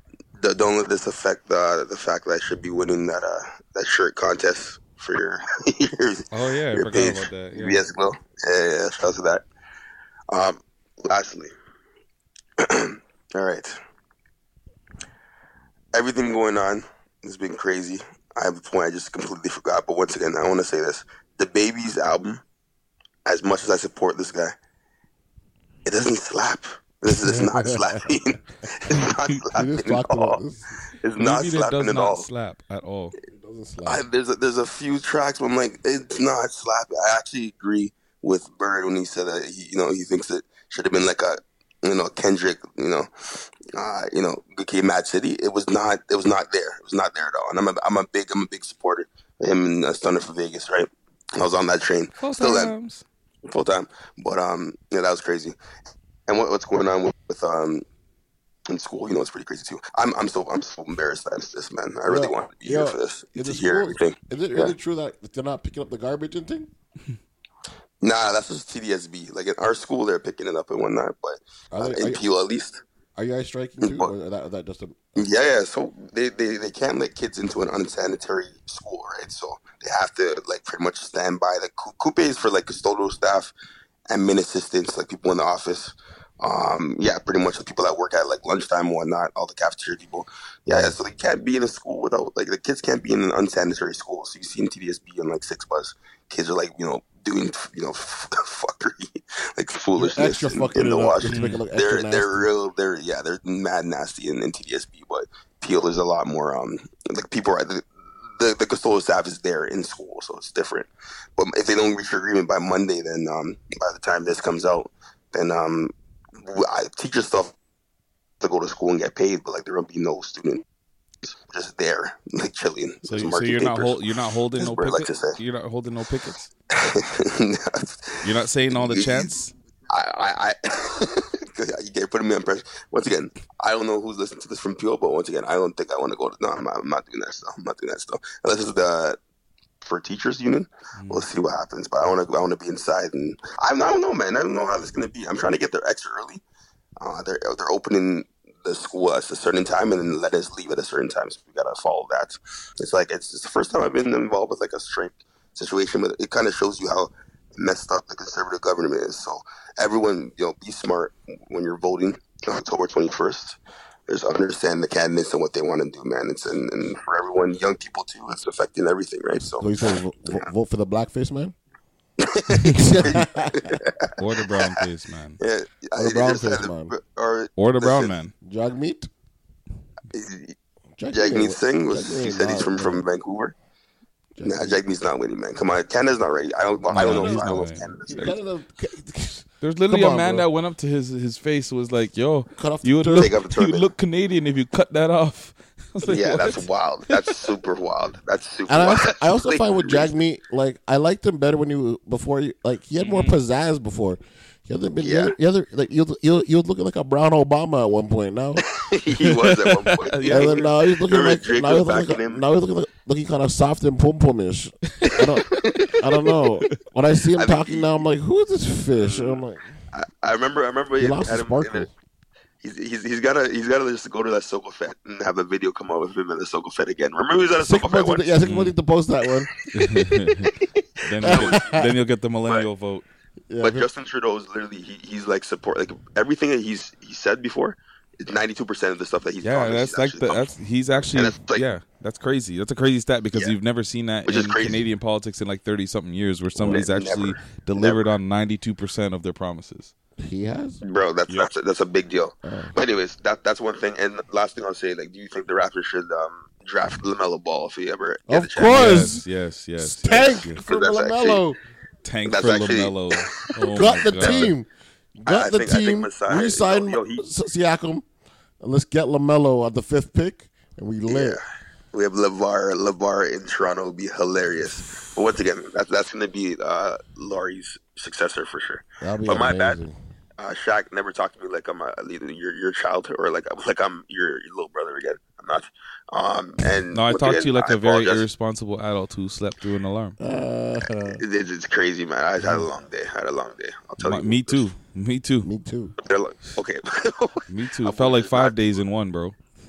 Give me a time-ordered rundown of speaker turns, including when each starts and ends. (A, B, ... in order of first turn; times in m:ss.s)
0:00.4-0:09.4 A
0:06.3-0:07.9 B
0:10.3-0:11.5 A
0:12.6-0:13.8 A
0:15.9-0:22.4 A
0:23.2-0:24.5 A
0:25.8-0:30.4 A
0:27.1-0:28.0 C
0:29.5-0:30.8 C
0:31.0-0:32.3 A
0:31.2-0:33.2 B
0:33.3-0:34.0 C
0:33.8-0:43.1 A
0:43.7-0:52.7 A
0:52.2-0:53.0 B
0:53.4-0:55.5 A
0:56.3-0:57.8 A
0:58.7-1:04.7 A
1:02.0-1:06.7 C
1:08.0-1:12.8 A
1:11.7-1:12.2 C
1:13.2-1:15.1 C
1:13.8-1:14.1 A
1:15.2-1:23.5 A
1:24.1-1:57.5 A
1:30.7-1:31.0 C
1:40.0-1:42.5 C
1:41.2-1:41.6 B
1:58.4-2:00.6 A
2:01.2-2:04.0 A
2:03.0-2:06.5 B
2:04.6-2:05.4 A
2:06.7-2:09.4 A
2:08.2-2:09.5 B
2:09.9-2:19.2 A
2:19.8-2:26.4 A
2:21.0-2:21.3 B
2:27.0-2:43.6 A
2:44.1-2:50.4 A
2:49.5-2:51.5 C
2:52.2-2:54.8 A
2:52.5-2:53.7 C
2:54.2-2:55.4 B
2:55.4-2:58.2 A
2:56.0-2:56.9 C
2:57.6-2:58.3 B
2:58.4-2:59.1 C
3:00.1-3:00.5 A
3:01.0-3:03.1 C
3:01.1-3:03.5 A
3:04.4-3:04.8 C
3:04.4-3:08.3 A
3:06.9-3:08.4 B
3:06.9-3:07.5 C
3:08.0-3:10.5 C
3:09.6-3:17.6 B
3:12.6-3:13.4 C
3:13.1-3:13.9 A
3:16.0-3:20.1 A
3:18.7-3:28.6 C
3:23.0-3:23.4 B
3:25.0-3:25.3 A
3:28.8-3:32.4 A
3:29.1-3:30.8 B
3:30.2-3:39.8 C
3:35.0-3:35.9 B
3:35.5-3:35.9 A
3:37.3-3:38.0 A
3:39.0-3:39.4 A
3:39.9-3:41.9 A
3:41.0-3:41.9 C
3:42.6-3:48.4 A
3:47.6-3:49.5 C
3:48.4-3:48.7 B
3:49.7-3:53.0 B
3:51.1-3:51.8 A
3:51.2-3:51.9 C
3:53.5-3:53.9 C
3:53.6-4:01.7 A
3:59.4-4:09.9 B
4:04.2-4:04.8 A
4:06.5-4:08.1 A
4:10.2-4:10.8 C
4:10.8-4:19.0 A
4:12.4-4:12.8 C
4:18.3-4:19.2 C
4:18.6-4:20.6 B
4:19.8-4:21.5 C
4:20.6-4:21.4 A
4:22.0-4:24.5 B
4:22.2-4:24.4 A
4:23.7-4:28.0 C
4:25.2-4:27.2 A
4:28.6-4:31.4 C
4:31.1-4:39.8 A
4:39.0-4:40.0 C
4:40.4-4:48.3 A
4:46.9-4:50.2 B
4:50.2-4:51.2 C
4:51.2-4:54.7 A
4:54.0-4:55.5 B
4:55.4-4:55.9 C
4:56.0-4:58.6 A
4:57.5-4:59.4 B